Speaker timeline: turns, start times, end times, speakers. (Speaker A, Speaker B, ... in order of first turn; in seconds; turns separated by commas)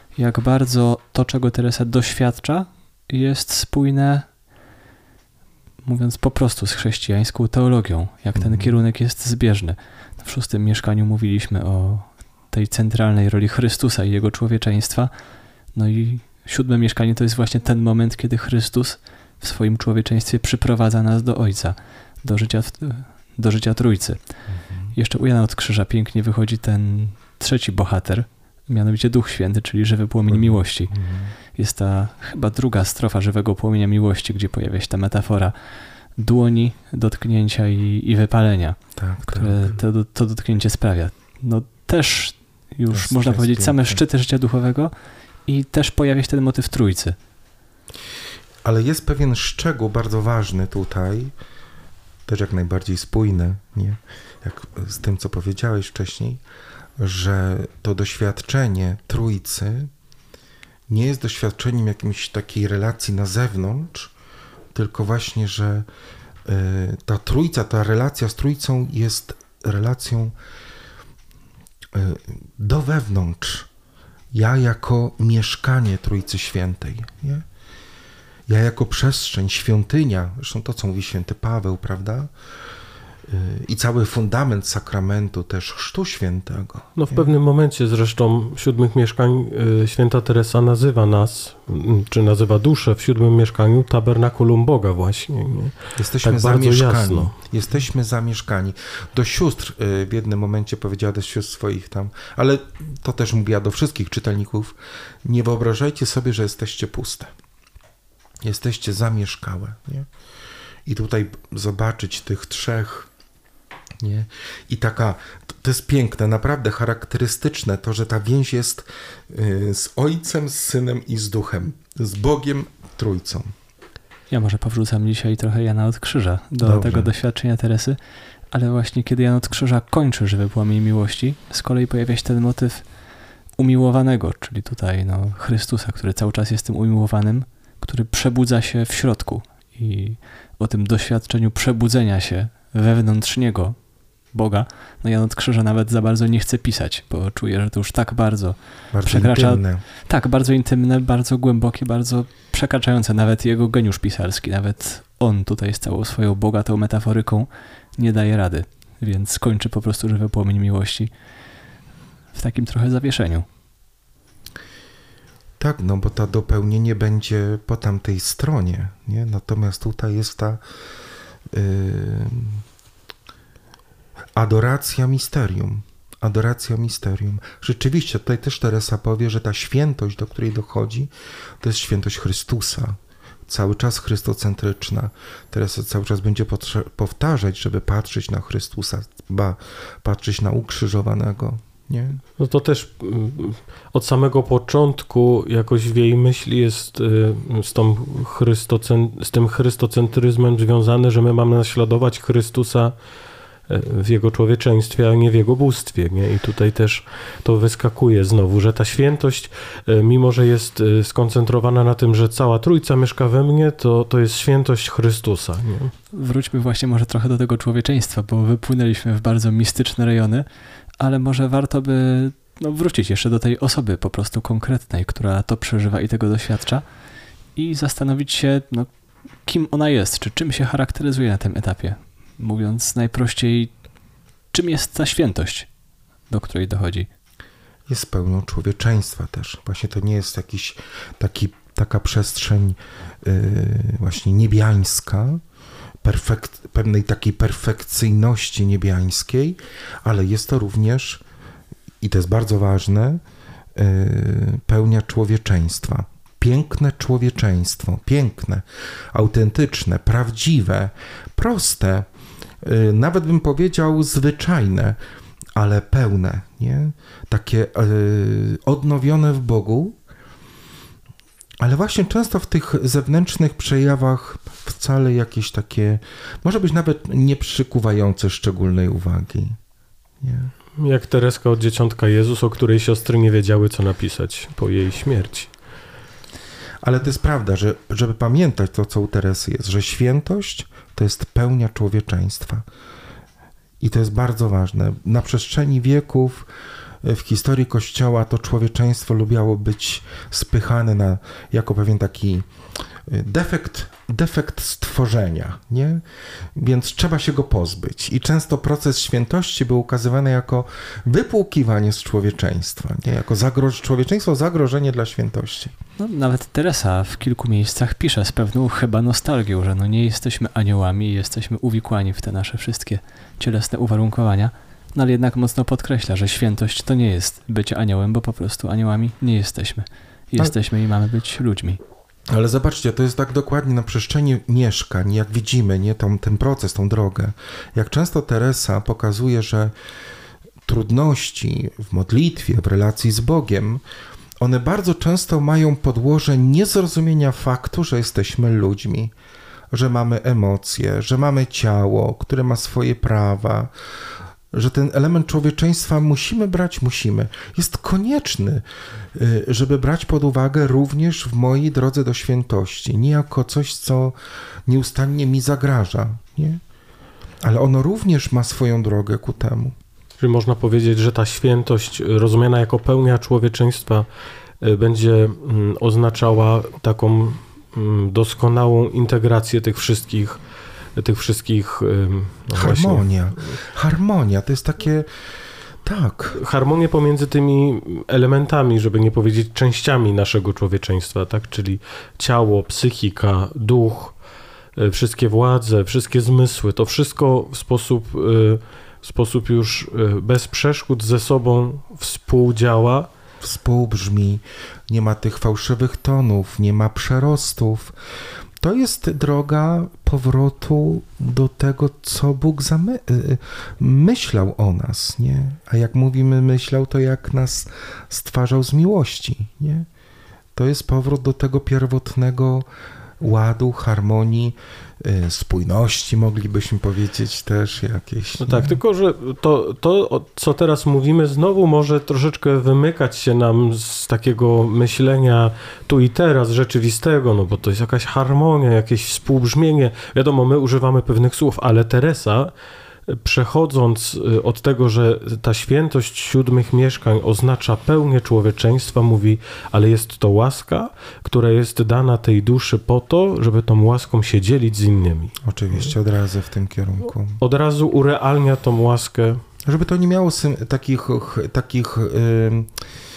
Speaker A: 0.1-4.3, Speaker A: 5.8-15.1, Speaker B: 8.3-8.7, Speaker A: 15.8-24.2, Speaker B: 24.6-24.9, Speaker A: 24.9-30.9, Speaker B: 30.3-31.3, Speaker A: 31.5-35.5, Speaker A: 36.2-44.9, Speaker B: 39.0-39.8, Speaker B: 42.9-44.0, Speaker A: 45.5-47.2, Speaker B: 48.6-51.3, Speaker B: 52.3-56.4, Speaker B: 57.0-59.9, Speaker B: 60.9-64.1, Speaker B: 64.7-65.9, Speaker B: 66.5-70.3, Speaker B: 71.9-73.7, Speaker B: 74.3-77.5, Speaker B: 78.5-82.3, Speaker B: 83.3-87.3, Speaker C: 87.0-97.3, Speaker B: 96.0-107.3, Speaker B: 108.4-110.1, Speaker B: 110.9-113.1, Speaker B: 114.0-123.5, Speaker A: 124.3-128.0, Speaker B: 126.6-127.1, Speaker A: 128.5-132.8, Speaker A: 133.6-143.8, Speaker A: 144.3-161.1, Speaker B: 148.9-149.8, Speaker A: 162.3-163.5, Speaker B: 165.6-170.6, Speaker B: 171.5-172.6, Speaker B: 174.3-192.2, Speaker C: 192.4-203.0, Speaker C: 203.7-215.9, Speaker A: 216.1-220.5, Speaker A: 221.0-226.8, Speaker A: 227.6-228.9, Speaker A: 229.4-233.7, Speaker A: 234.5-235.7, Speaker A: 236.3-237.1, Speaker B: 237.9-245.4, Speaker B: 246.0-251.2, Speaker B: 252.0-253.2, Speaker B: 253.8-262.1, Speaker B: 262.6-265.0, Speaker B: 265.6-270.0, Speaker B: 271.6-279.6, Speaker B: 280.2-280.5, Speaker C: 280.8-285.5, Speaker B: 286.8-292.6, Speaker B: 293.8-296.5, Speaker B: 297.0-302.5, Speaker B: 303.1-306.0, Speaker B: 306.6-315.8, Speaker A: 316.0-331.8, Speaker B: 332.3-339.7, Speaker B: 340.6-343.8, Speaker B: 344.4-349.1, Speaker B: 349.7-353.7, Speaker B: 354.5-364.1, Speaker B: 364.6-366.6, Speaker B: 367.4-369.8, Speaker C: 370.2-374.1, Speaker C: 374.6-380.4, Speaker C: 381.0-383.0, Speaker B: 382.5-385.1, Speaker B: 385.8-386.4, Speaker C: 386.3-394.1, Speaker C: 394.8-403.1, Speaker B: 403.4-407.9, Speaker B: 408.6-419.9, Speaker B: 420.6-422.7, Speaker B: 423.2-428.8, Speaker C: 428.4-442.5, Speaker C: 443.1-455.4, Speaker B: 455.4-457.4, Speaker C: 457.4-459.4, Speaker B: 459.6-462.7